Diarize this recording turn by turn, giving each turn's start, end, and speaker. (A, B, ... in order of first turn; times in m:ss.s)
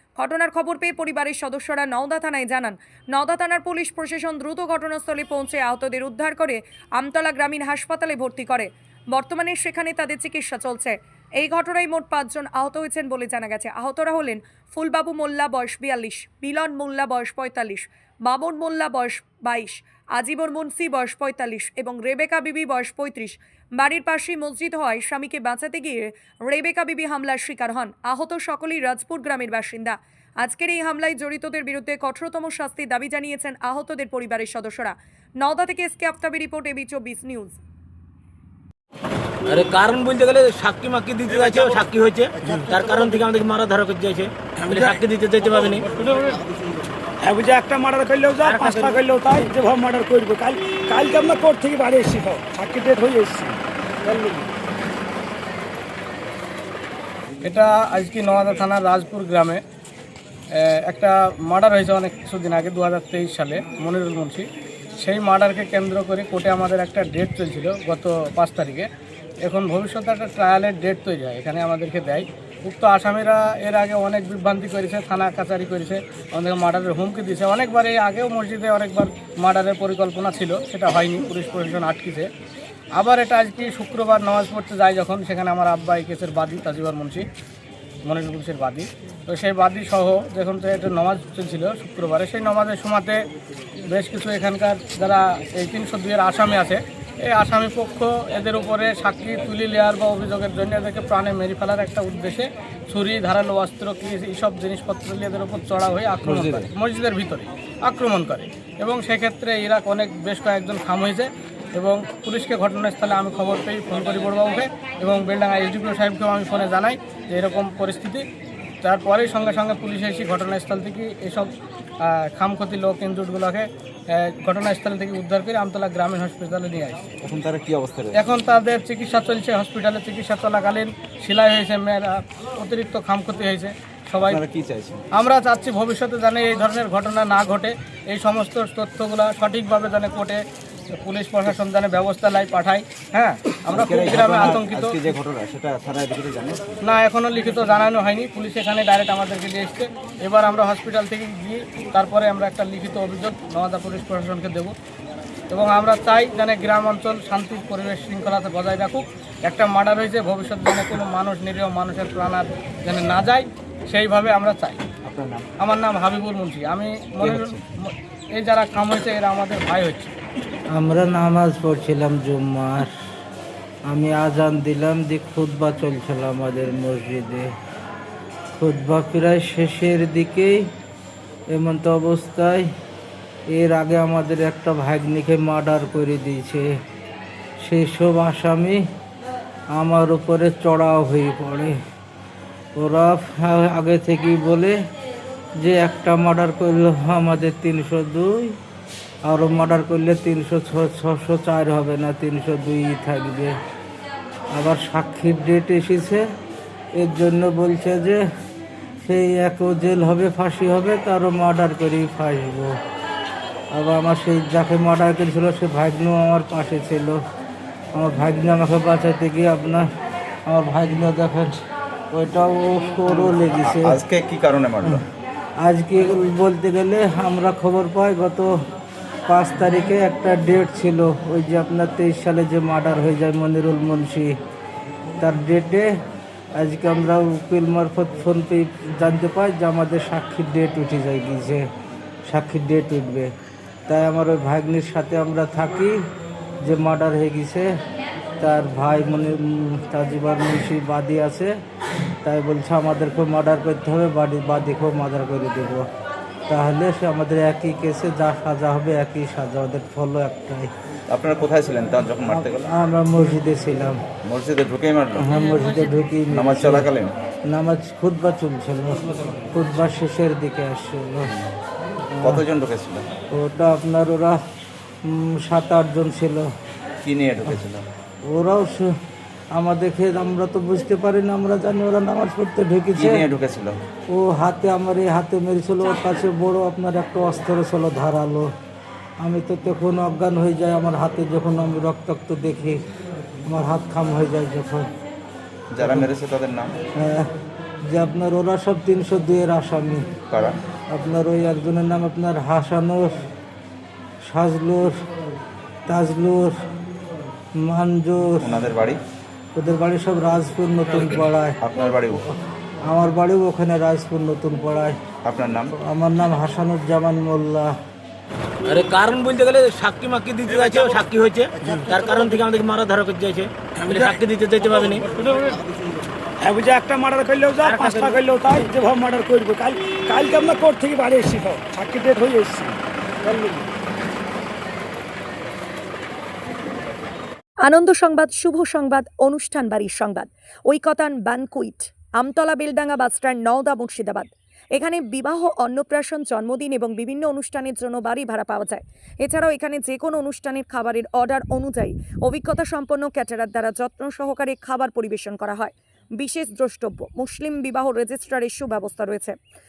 0:00.2-0:37.6 A
0:39.5-0:46.0 B
0:47.2-0:48.3 C
0:48.4-0:49.0 B
0:49.0-0:53.6 C
0:57.4-0:59.6 D
1:00.5-1:04.5 D
1:05.0-1:08.9 D
1:09.5-1:22.3 D
1:23.0-1:27.3 D
1:28.1-1:33.2 D
1:33.9-1:58.2 D
1:46.2-1:46.7 E
1:58.8-2:07.1 D
2:07.2-2:08.2 E
2:08.2-2:14.4 D
2:14.2-2:15.0 E
2:15.2-2:20.4 D
2:21.0-2:25.0 D
2:23.7-2:26.8 E
2:26.8-2:34.8 D
2:35.5-2:44.8 D
2:45.0-2:45.5 E
2:45.6-2:50.2 D
2:47.2-2:47.6 E
2:50.7-2:52.9 F
2:53.9-2:57.5 F
2:58.5-3:00.7 F
3:01.5-3:02.7 F
3:03.5-3:06.7 F
3:07.6-3:08.8 F
3:09.8-3:11.8 F
3:12.8-3:14.8 F
3:15.6-3:18.6 F
3:19.3-3:23.6 F
3:24.6-3:26.2 F
3:27.0-3:28.2 F
3:29.0-3:32.8 F
3:33.7-3:37.2 F
3:38.0-3:39.9 F
3:40.5-3:41.6 F
3:42.1-3:44.0 F
3:43.1-3:45.0 E
3:45.6-3:48.5 F
3:49.3-3:54.4 F
3:55.2-3:55.9 F
3:56.6-4:01.7 F
4:02.3-4:03.3 F
4:03.9-4:06.0 F
4:06.6-4:07.8 F
4:08.4-4:11.5 F
4:12.2-4:15.9 F
4:16.5-4:20.7 F
4:21.1-4:22.7 E
4:22.2-4:24.0 F
4:24.2-4:25.3 E
4:25.2-4:26.9 F
4:26.3-4:27.1 E
4:27.5-4:29.0 F
4:29.5-4:31.3 F
4:32.1-4:32.4 F
4:32.2-4:33.1 E
4:33.3-4:34.4 F
4:35.0-4:36.5 F
4:37.0-4:37.9 E
4:38.3-4:39.0 F
4:39.5-4:43.2 F
4:43.0-4:43.8 E
4:44.1-4:48.5 F
4:49.2-4:52.8 F
4:53.5-4:54.9 F
4:55.7-4:56.7 E
4:55.8-4:56.1 F
4:57.0-4:57.3 F
4:57.8-5:00.1 F
5:00.3-5:00.6 E
5:00.9-5:03.2 F
5:04.2-5:05.0 F
5:05.9-5:06.6 F
5:07.6-5:08.6 F
5:08.4-5:09.0 E
5:09.6-5:12.2 F
5:11.6-5:12.2 E
5:12.8-5:15.0 F
5:15.2-5:15.8 E
5:15.7-5:17.8 F
5:18.7-5:25.1 B
5:26.4-5:27.5 C
5:27.6-5:28.2 B
5:28.2-5:32.8 C
5:37.6-5:59.4 A